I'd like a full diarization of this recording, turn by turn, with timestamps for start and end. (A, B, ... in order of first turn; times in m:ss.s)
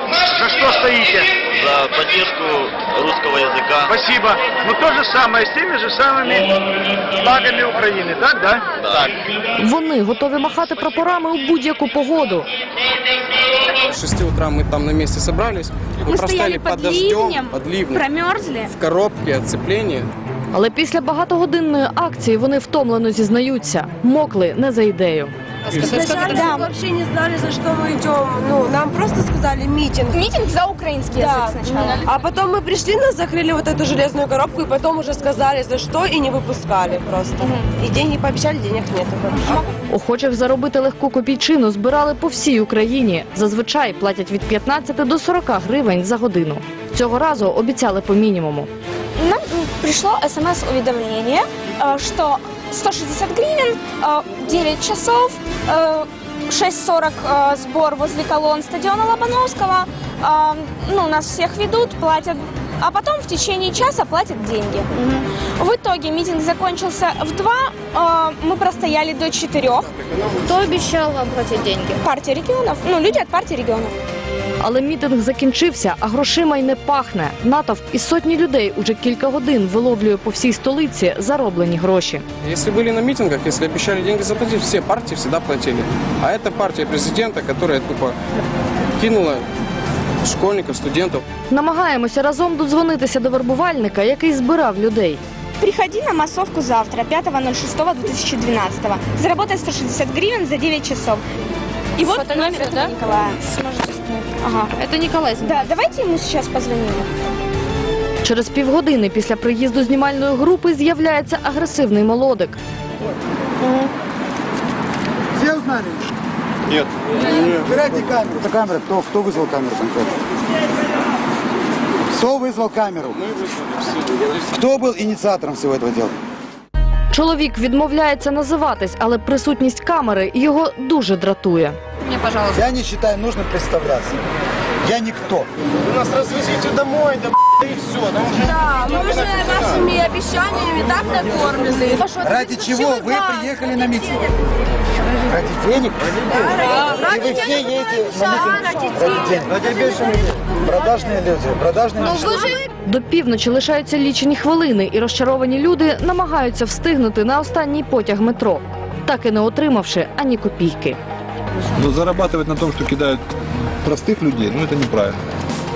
0:00.3-0:01.3 A
0:01.5-0:03.8 B
0:03.9-0:06.5 A
0:07.2-0:08.6 A
0:09.6-0:12.5 C
0:13.8-0:18.0 D
0:16.1-0:18.6 E
0:18.7-0:20.1 D
0:20.5-0:25.3 C
0:25.7-0:26.0 D
0:25.7-0:30.4 F
0:26.2-0:26.7 E
0:30.1-0:32.1 E
0:31.2-0:39.6 F
0:39.9-0:48.7 C
0:49.2-1:09.9 E
1:10.1-1:10.5 D
1:10.5-1:10.9 G
1:11.2-1:13.9 E
1:14.6-1:22.2 C
1:22.4-1:28.2 D
1:29.0-1:29.4 D
1:30.2-1:31.2 D
1:31.5-1:35.2 C
1:35.6-1:41.2 E
1:42.0-1:43.6 E
1:42.0-1:42.9 G
1:44.3-1:44.8 E
1:44.7-1:45.6 G
1:45.4-1:47.1 E
1:48.2-1:52.6 C
1:53.6-1:53.9 E
1:55.3-1:56.0 H
1:57.6-2:00.1 H
2:02.1-2:03.2 H
2:04.5-2:06.1 H
2:07.1-2:11.8 C
2:12.1-2:12.5 G
2:12.5-2:14.2 H
2:14.8-2:15.5 H
2:16.6-2:17.2 F
2:17.9-2:24.2 F
2:22.2-2:24.2 H
2:25.3-2:26.4 H
2:26.3-2:30.0 F
2:26.9-2:32.5 H
2:32.8-2:41.0 C
2:41.8-2:43.2 I
2:43.8-2:45.2 I